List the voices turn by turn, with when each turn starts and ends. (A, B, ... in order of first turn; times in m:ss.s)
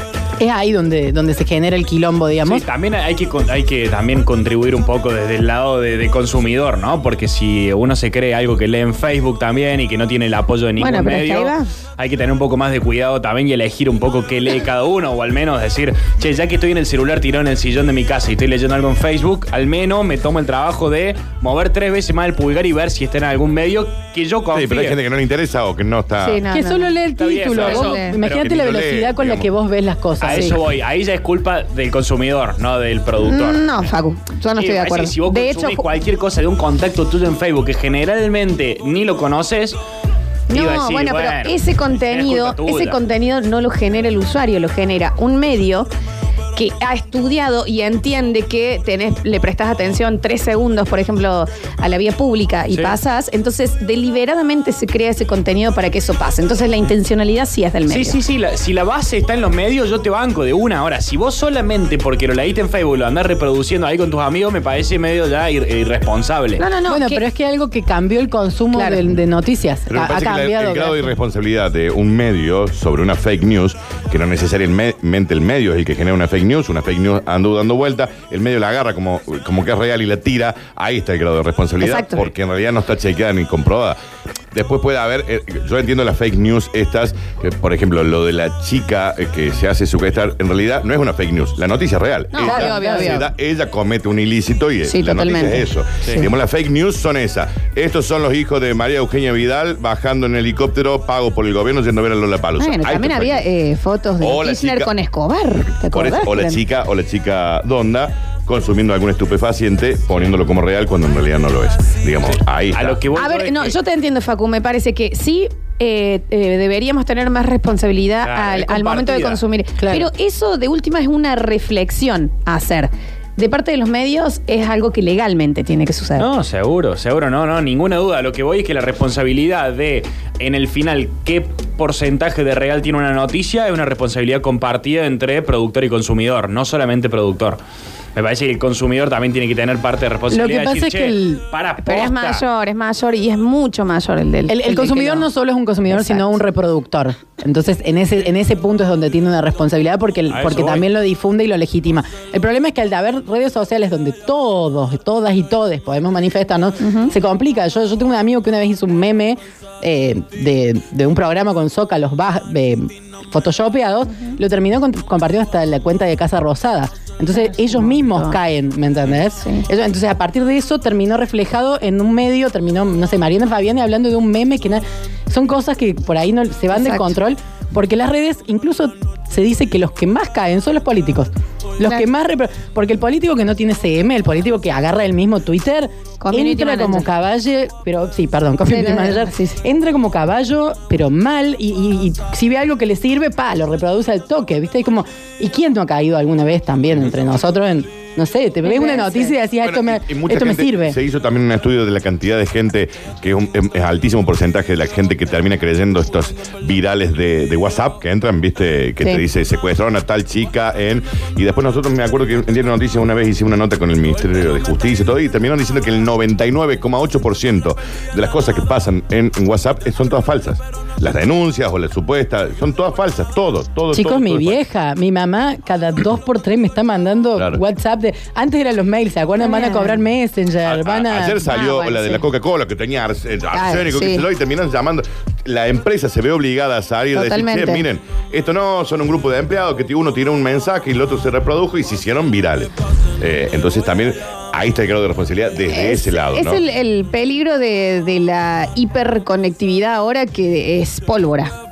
0:00.4-0:02.6 A
0:02.4-0:25.0 B
0:10.8-0:11.7 C
0:24.5-0:26.4 D
0:26.2-0:27.0 C
0:26.5-0:30.6 A
0:27.2-0:28.5 B
0:27.5-0:28.2 C
0:28.3-0:29.5 D
0:30.2-0:33.6 B
0:30.3-0:30.6 C
0:33.2-0:35.9 C
0:34.5-0:39.8 B
0:40.5-0:43.0 B
0:40.5-0:45.9 C
0:46.5-0:58.2 C
0:52.7-0:53.0 B
0:57.9-1:06.6 B
1:06.6-1:07.2 C
1:06.8-1:11.1 A
1:08.7-1:09.0 C
1:09.9-1:24.0 D
1:21.8-1:22.3 C
1:24.5-1:43.5 D
1:32.3-1:33.3 C
1:32.4-1:33.2 A
1:34.8-1:36.2 C
1:42.6-1:46.6 C
1:44.2-1:44.9 D
1:45.9-1:53.0 D
1:52.7-1:53.8 B
1:53.1-2:06.3 C
1:58.2-1:59.4 B
1:59.8-2:00.1 A
2:06.2-2:17.6 B
2:18.1-2:22.4 B
2:20.3-2:21.4 A
2:21.8-2:25.3 C
2:24.5-3:21.0 A
2:25.9-2:26.4 C
2:30.3-2:30.9 B
2:36.8-2:37.1 C
2:47.4-2:48.4 C
2:49.4-2:49.6 C
2:56.7-2:57.2 C
3:06.2-3:07.1 C
3:08.6-3:09.6 C
3:18.6-3:19.4 C
3:19.6-3:44.6 D
3:43.9-3:51.5 A
3:47.4-3:47.6 D
3:49.4-3:50.0 C
3:50.7-4:06.6 D
3:51.4-3:52.2 C
3:53.5-3:54.2 C
3:57.1-3:57.8 C
4:05.7-4:11.5 C